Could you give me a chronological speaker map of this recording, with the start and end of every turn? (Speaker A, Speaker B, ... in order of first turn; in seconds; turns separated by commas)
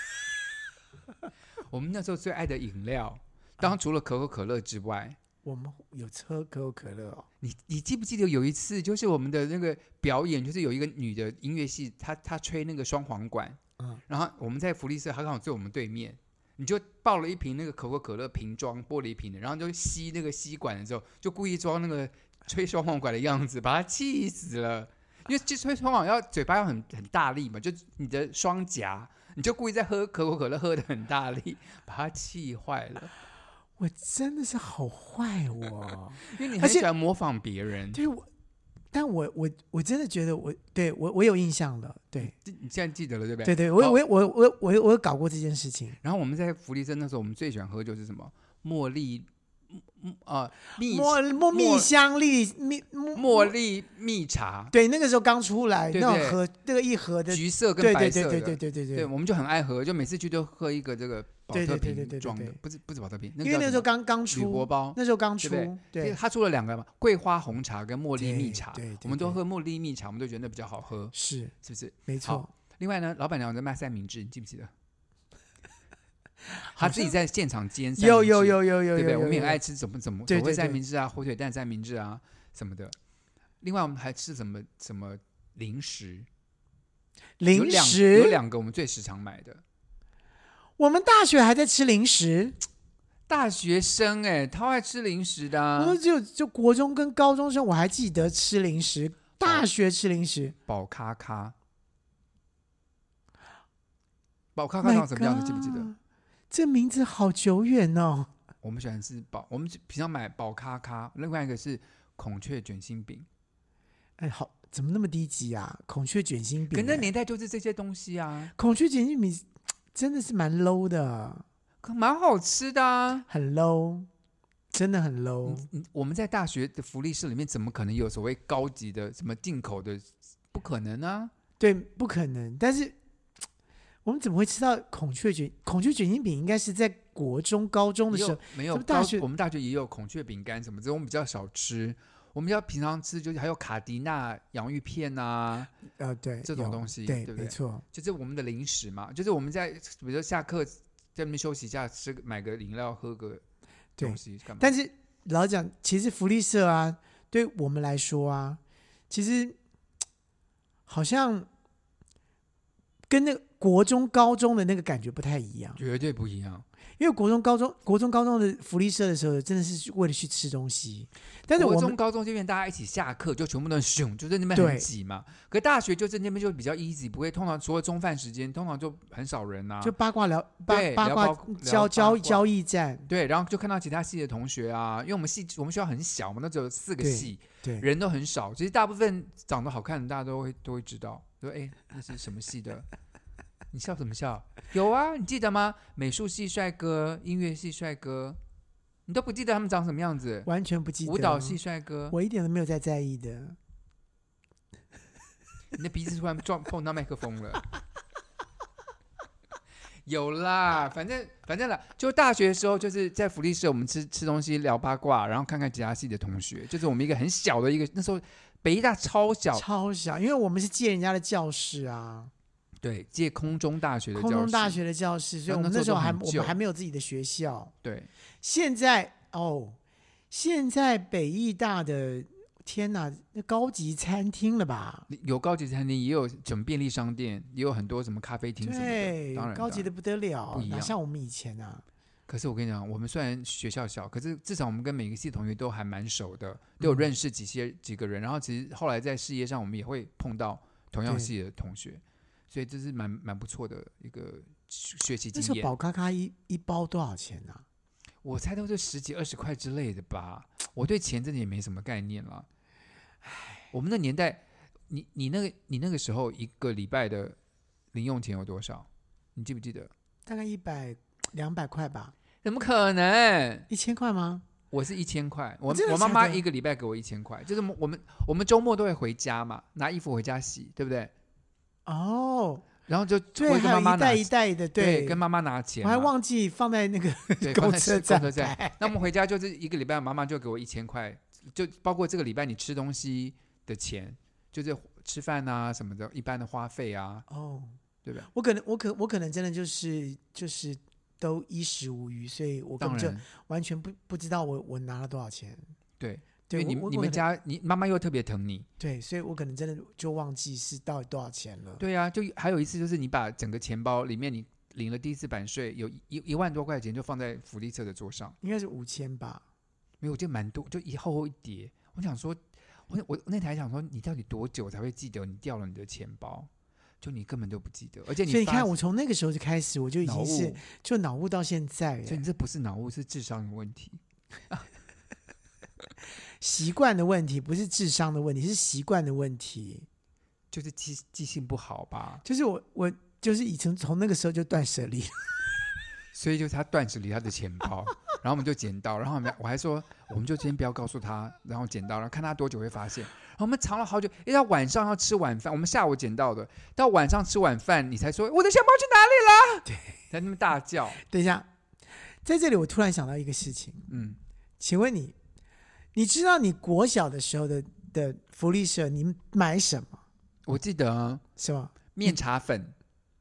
Speaker A: 1.7-5.2, Speaker B: 5.4-7.3, Speaker A: 7.4-33.1, Speaker B: 33.8-36.8, Speaker A: 36.2-38.0, Speaker B: 37.9-38.3, Speaker B: 38.9-42.3, Speaker A: 42.2-44.0, Speaker B: 43.4-46.0, Speaker A: 46.0-51.9, Speaker B: 50.8-53.5, Speaker A: 53.1-54.7, Speaker B: 54.7-59.1, Speaker A: 55.9-56.4, Speaker A: 57.3-74.7, Speaker B: 61.5-62.6, Speaker B: 63.4-66.2, Speaker B: 68.2-69.4, Speaker B: 71.1-71.5, Speaker B: 72.1-72.5, Speaker B: 76.5-77.1, Speaker A: 76.8-83.0, Speaker B: 78.0-79.6, Speaker B: 80.3-80.8, Speaker A: 83.6-86.3, Speaker B: 87.4-88.4, Speaker A: 87.5-89.6, Speaker B: 90.8-92.6, Speaker A: 93.3-96.0, Speaker B: 95.8-100.5, Speaker A: 100.7-101.5, Speaker A: 104.5-105.9, Speaker B: 104.8-106.0, Speaker B: 106.5-108.3, Speaker A: 108.6-113.3, Speaker B: 114.2-117.1, Speaker A: 116.7-118.5, Speaker B: 118.5-121.4, Speaker A: 121.8-123.3, Speaker B: 123.3-124.1, Speaker B: 124.7-125.7, Speaker A: 125.4-131.3, Speaker B: 131.6-132.9, Speaker B: 134.0-139.2, Speaker A: 138.1-145.7, Speaker B: 146.0-147.8, Speaker A: 146.4-153.4, Speaker B: 154.0-159.6, Speaker A: 154.0-154.7, Speaker B: 160.9-161.5, Speaker B: 163.1-165.8, Speaker A: 165.8-166.6, Speaker B: 167.0-171.9, Speaker A: 171.5-179.9, Speaker B: 174.5-174.8, Speaker B: 179.8-183.1, Speaker A: 180.7-182.5, Speaker A: 183.1-192.9, Speaker B: 187.0-187.8, Speaker A: 193.7-198.4, Speaker A: 199.1-200.5, Speaker B: 200.4-201.6, Speaker A: 201.0-202.2, Speaker B: 202.1-203.6, Speaker A: 205.7-207.7, Speaker A: 210.0-219.6, Speaker B: 219.5-222.3, Speaker A: 222.8-224.8, Speaker B: 224.1-227.7, Speaker A: 225.5-226.6, Speaker A: 227.8-228.1, Speaker B: 228.4-229.8, Speaker B: 230.3-235.1, Speaker A: 235.1-239.9, Speaker B: 238.6-241.8, Speaker A: 240.5-240.9, Speaker A: 242.3-255.7, Speaker B: 246.8-247.1, Speaker B: 255.3-257.6, Speaker A: 258.2-262.5, Speaker B: 263.2-263.6, Speaker A: 263.7-267.4, Speaker A: 267.9-269.9, Speaker B: 270.2-272.1, Speaker A: 272.4-273.7, Speaker B: 273.7-274.4, Speaker A: 274.7-281.1, Speaker B: 275.7-276.4, Speaker B: 281.9-282.6, Speaker A: 282.9-286.1, Speaker B: 283.3-285.2, Speaker B: 285.8-288.9, Speaker A: 287.4-297.2, Speaker B: 297.3-297.8, Speaker B: 298.3-305.6, Speaker A: 302.8-303.2, Speaker A: 306.0-308.7, Speaker B: 306.5-307.2, Speaker B: 308.8-311.8, Speaker A: 311.8-318.4, Speaker B: 318.4-319.4, Speaker A: 320.0-326.5, Speaker A: 327.0-328.7, Speaker B: 328.3-332.2, Speaker A: 330.0-330.6, Speaker A: 332.1-334.6, Speaker B: 336.4-339.9, Speaker A: 340.5-342.2, Speaker B: 342.2-345.3, Speaker A: 346.1-361.0, Speaker B: 359.7-360.0, Speaker B: 361.1-361.5, Speaker B: 362.2-363.9, Speaker A: 363.9-364.2, Speaker B: 364.6-365.1, Speaker B: 365.9-370.0, Speaker A: 370.4-371.2, Speaker B: 371.4-372.1, Speaker A: 371.9-372.7